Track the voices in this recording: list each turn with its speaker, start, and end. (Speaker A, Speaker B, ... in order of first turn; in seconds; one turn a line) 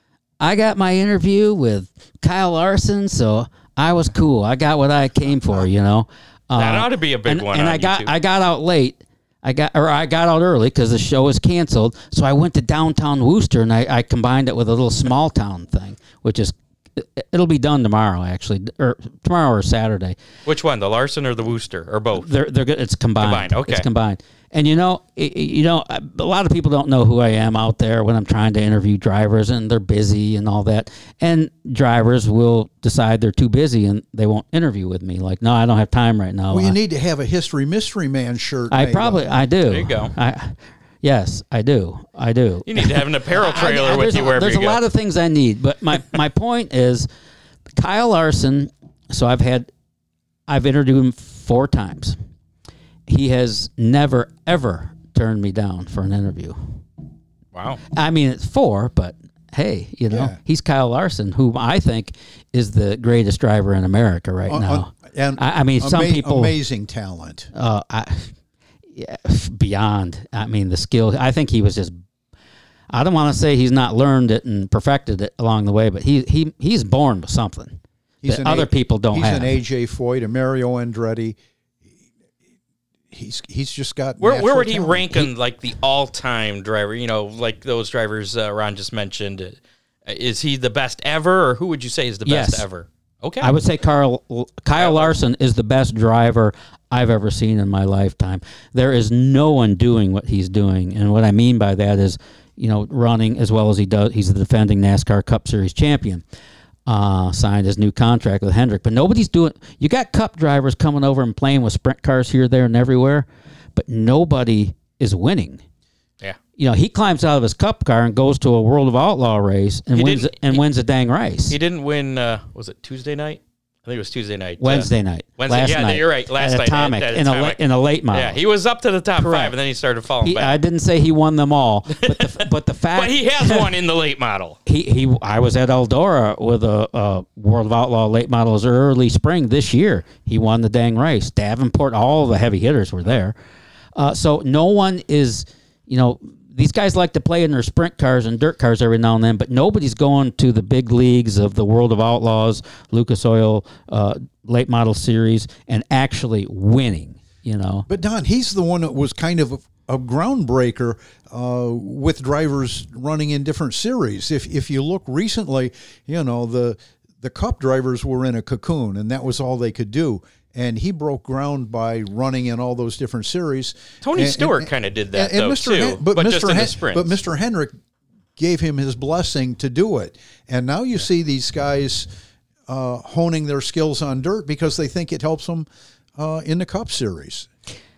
Speaker A: 0.4-20.2
Speaker B: 6.6-8.1
Speaker B: 20.4-22.3
Speaker A: 22.2-36.8
Speaker B: 23.2-23.9
Speaker C: 36.5-39.3
Speaker A: 38.7-47.1
Speaker B: 39.7-40.1
Speaker B: 42.7-44.8
Speaker A: 47.8-49.7
Speaker A: 50.5-52.2
Speaker A: 53.1-56.8
Speaker B: 57.5-57.8
Speaker A: 57.9-66.6
Speaker C: 60.1-60.4
Speaker C: 64.5-67.5
Speaker A: 67.5-68.3
Speaker A: 68.9-72.0
Speaker A: 72.9-79.6
Speaker C: 78.2-81.4
Speaker C: 83.1-85.3
Speaker B: 84.2-93.5
Speaker A: 92.3-92.7
Speaker A: 93.4-106.2
Speaker B: 94.8-95.1
Speaker A: 106.9-115.6
Speaker A: 116.6-121.6
Speaker B: 119.9-120.6
Speaker B: 121.5-124.9
Speaker A: 124.6-128.4
Speaker B: 125.4-127.6
Speaker B: 128.1-130.6
Speaker A: 129.2-129.5
Speaker A: 130.2-133.7
Speaker B: 132.0-134.6
Speaker A: 134.7-143.4
Speaker A: 144.0-157.9
Speaker C: 157.9-177.7
Speaker B: 174.0-177.1
Speaker C: 178.4-182.1
Speaker C: 182.7-187.5